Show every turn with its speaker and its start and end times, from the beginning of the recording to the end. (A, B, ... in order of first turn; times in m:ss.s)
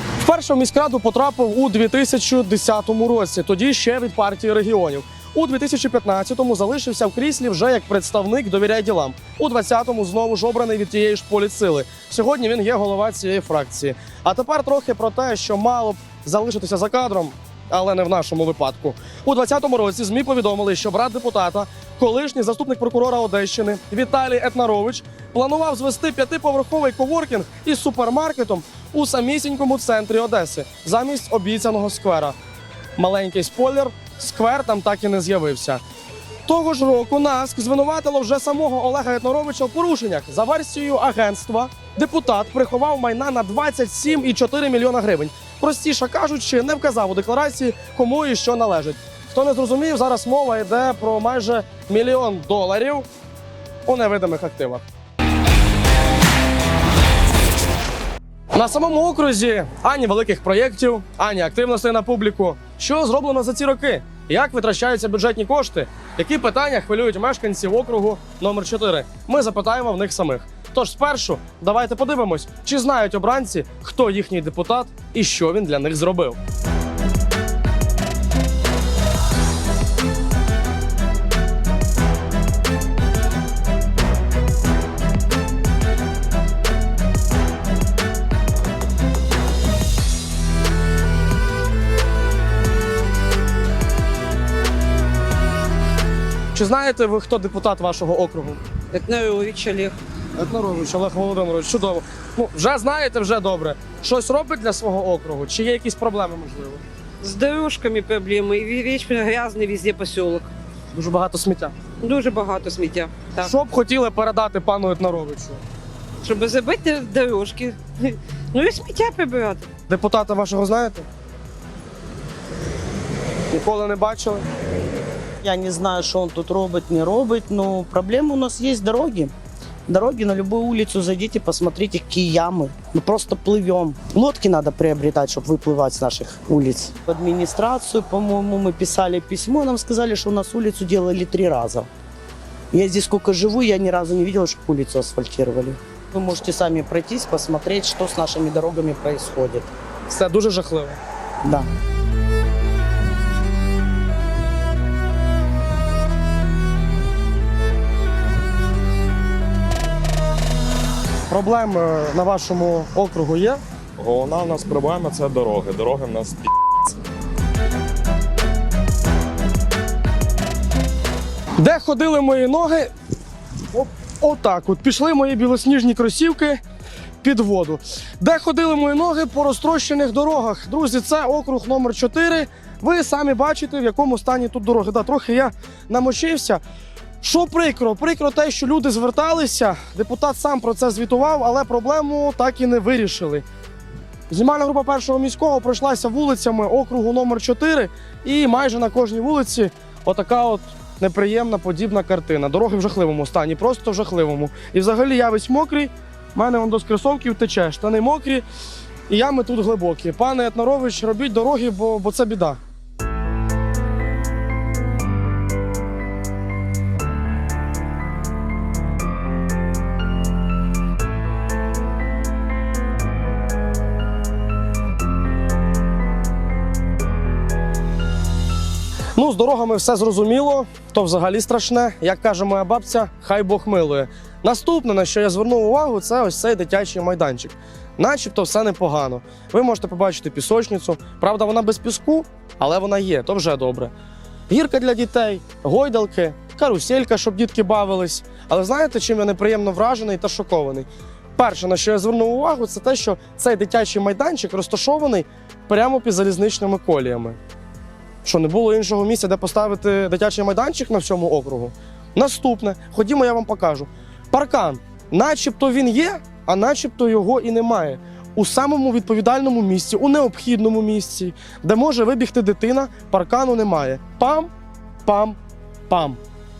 0:00.2-0:32.4 A
0:33.0-0:35.8 A
0:36.5-0:53.1 A
0:53.9-0:54.8 A
0:58.5-1:16.4 A
1:36.5-1:38.6 A
1:38.9-1:40.0 B
1:40.3-1:46.8 A
1:47.2-1:50.5 B
1:50.9-1:51.8 A
1:52.0-1:53.5 B
1:53.4-1:55.6 A
1:56.2-1:59.7 B
1:59.9-2:01.1 A
2:03.5-2:04.4 A
2:05.4-2:09.3 C
2:09.9-2:21.9 C
2:22.7-2:29.7 C
2:30.1-2:31.0 A
2:31.4-2:31.7 C
2:41.3-2:43.6 A
2:44.0-2:46.5 D
2:44.2-2:45.2 A
2:51.6-2:52.9 A
2:53.7-2:56.6 A
2:57.2-3:06.6 A
3:07.2-3:13.4 A
3:14.3-3:28.4 A
3:29.1-3:32.6 A
3:49.1-4:03.9 A
4:04.5-4:17.4 A
4:18.2-4:34.5 A
4:35.0-4:35.4 A
4:35.9-4:36.2 A